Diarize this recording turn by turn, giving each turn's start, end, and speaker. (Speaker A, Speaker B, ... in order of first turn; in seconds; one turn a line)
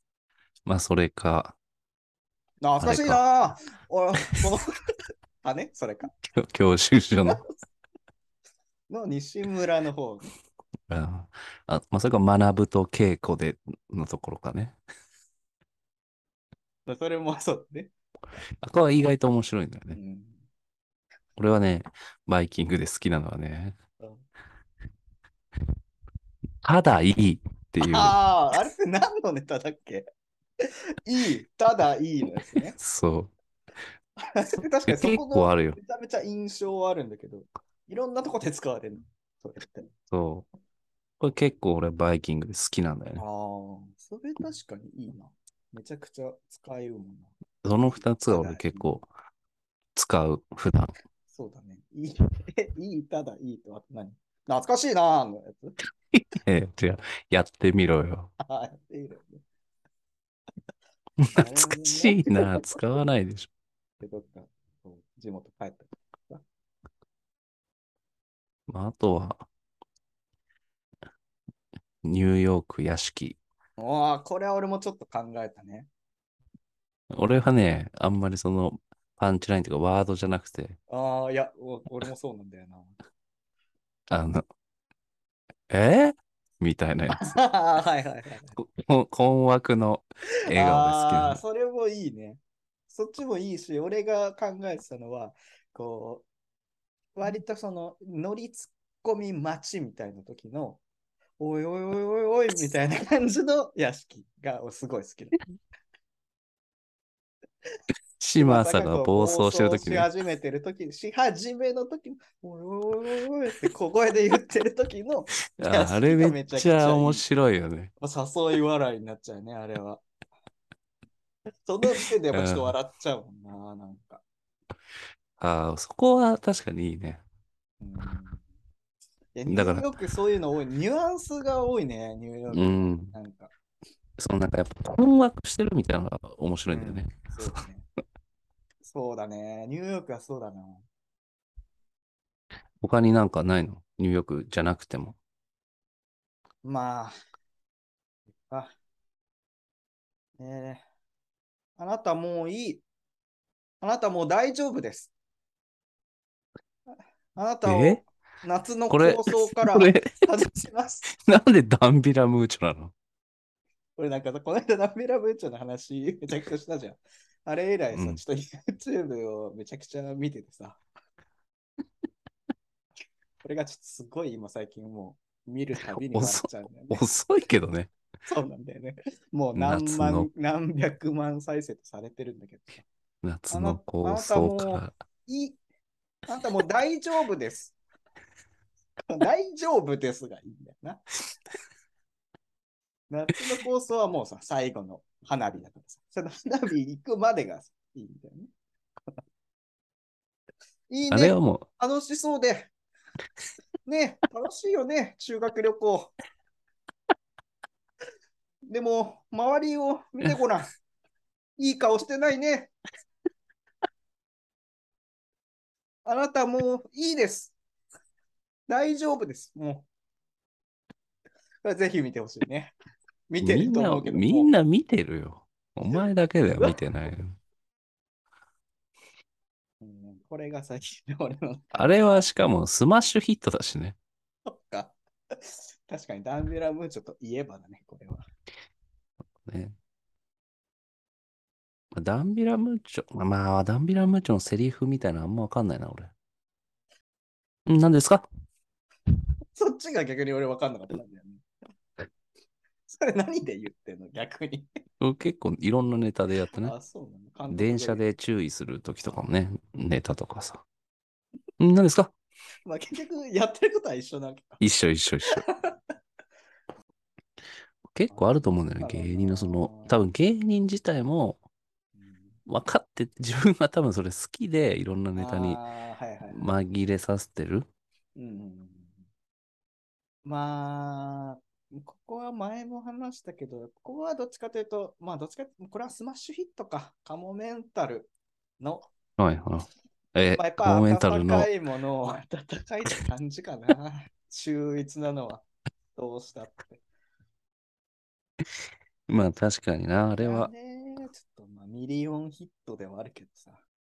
Speaker A: 0.7-1.6
Speaker B: 2.6-4.7
Speaker A: 2.8-3.2
Speaker B: 5.4-6.1
Speaker A: 6.3-7.4
Speaker B: 8.9-10.3
Speaker A: 10.9-14.8
Speaker B: 16.9-17.9
Speaker A: 18.6-20.0
Speaker B: 19.9-20.5
Speaker A: 21.4-23.8
Speaker A: 26.6-28.2
Speaker B: 27.8-30.1
Speaker B: 30.6-32.8
Speaker A: 32.8-33.3
Speaker B: 34.2-39.9
Speaker A: 34.9-35.8
Speaker A: 40.1-40.5
Speaker A: 41.2-43.2
Speaker B: 43.2-47.3
Speaker A: 47.6-49.1
Speaker B: 47.8-48.9
Speaker A: 50.0-50.9
Speaker B: 51.3-55.8
Speaker A: 56.1-58.3
Speaker B: 58.4-59.4
Speaker A: 61.2-63.5
Speaker B: 61.3-62.8
Speaker B: 64.0-66.5
Speaker A: 68.7-69.5
Speaker A: 72.0-73.4
Speaker B: 73.8-75.9
Speaker A: 77.1-80.8
Speaker B: 80.9-83.0
Speaker A: 84.1-84.5
Speaker A: 85.7-87.3
Speaker B: 87.1-88.5
Speaker A: 88.6-91.4
Speaker B: 90.5-96.3
Speaker B: 97.2-100.8
Speaker B: 101.4-105.4
Speaker A: 108.2-110.1
Speaker B: 108.4-117.2
Speaker A: 115.6-117.9
Speaker B: 118.0-120.0
Speaker B: 121.7-124.2
Speaker A: 122.3-122.7
Speaker A: 125.4-127.2
Speaker B: 127.8-128.4
Speaker B: 129.3-133.5
Speaker A: 129.5-129.9
Speaker A: 132.5-133.1
Speaker A: 134.2-137.3
Speaker B: 136.7-137.9
Speaker B: 138.8-140.8
Speaker A: 142.8-145.2
Speaker B: 146.6-147.2
Speaker B: 150.4-150.8
Speaker B: 151.8-152.8
Speaker B: 153.8-155.1
Speaker B: 157.4-161.1
Speaker A: 157.7-158.0
Speaker A: 158.9-160.3
Speaker A: 161.1-162.9
Speaker B: 164.0-170.8
Speaker A: 167.9-168.2
Speaker B: 173.4-177.1
Speaker A: 175.8-177.9
Speaker B: 178.3-182.9
Speaker A: 179.6-180.3
Speaker A: 183.2-184.9
Speaker B: 183.5-185.6
Speaker B: 186.3-187.8
Speaker B: 189.0-191.1
Speaker B: 193.1-198.5
Speaker B: 200.9-202.7
Speaker A: 201.1-201.7
Speaker B: 203.9-206.2
Speaker B: 208.7-210.7
Speaker B: 211.6-212.7
Speaker B: 216.1-217.6
Speaker B: 218.7-219.9
Speaker B: 221.6-222.7
Speaker B: 223.3-224.6
Speaker A: 223.4-227.4
Speaker B: 229.8-232.2
Speaker A: 231.7-234.0
Speaker B: 234.5-238.3
Speaker A: 239.4-239.8
Speaker A: 241.9-246.1
Speaker A: 247.7-248.3
Speaker B: 249.6-251.4
Speaker B: 252.9-254.7
Speaker A: 255.0-256.7
Speaker B: 256.6-258.0
Speaker A: 257.5-260.6
Speaker A: 261.6-262.1
Speaker B: 262.7-264.6
Speaker A: 264.6-265.4
Speaker B: 265.3-265.8
Speaker A: 267.9-271.4
Speaker B: 268.8-270.0
Speaker B: 272.0-272.4
Speaker A: 272.5-275.6
Speaker B: 275.1-276.5
Speaker A: 276.3-277.7
Speaker B: 278.2-278.9
Speaker B: 280.2-288.9
Speaker A: 289.2-291.5
Speaker B: 290.4-296.8
Speaker A: 299.1-300.5
Speaker B: 300.2-303.6